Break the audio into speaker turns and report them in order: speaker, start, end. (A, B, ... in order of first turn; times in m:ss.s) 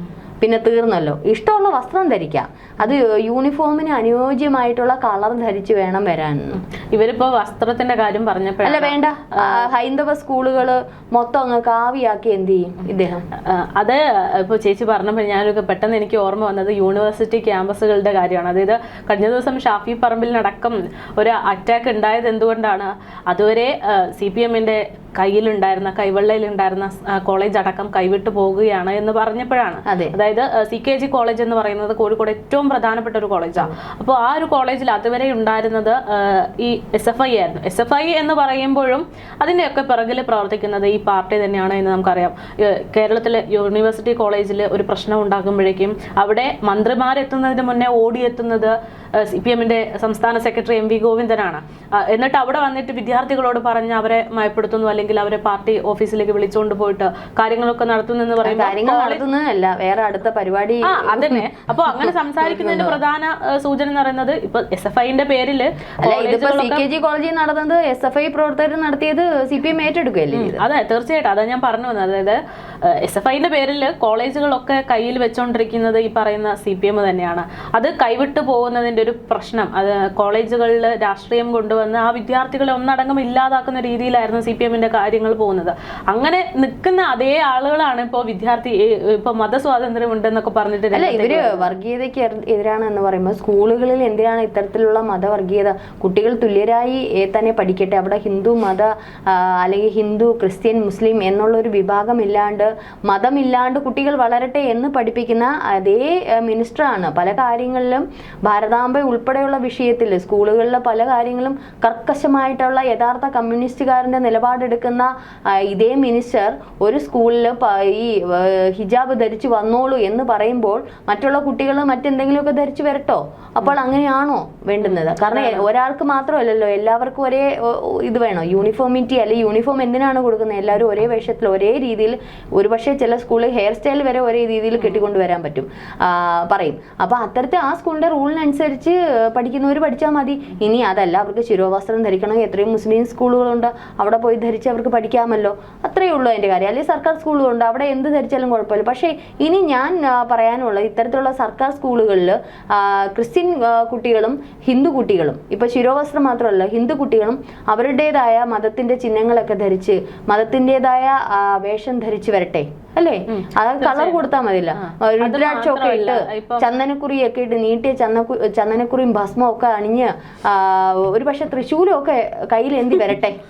0:00.4-0:06.6 A
0:06.9-0:09.6 B
0:08.6-0:13.2 A
0:13.4-0:59.2 B
0:29.9-0:30.2 A
0:58.4-1:03.0 A
1:00.8-1:06.8 B
1:06.0-1:10.6 A
1:10.3-1:12.4 B
1:13.0-1:31.7 B
1:30.9-2:53.4 A
2:04.8-2:05.6 B
2:43.3-2:44.2 B
2:44.8-2:46.6 B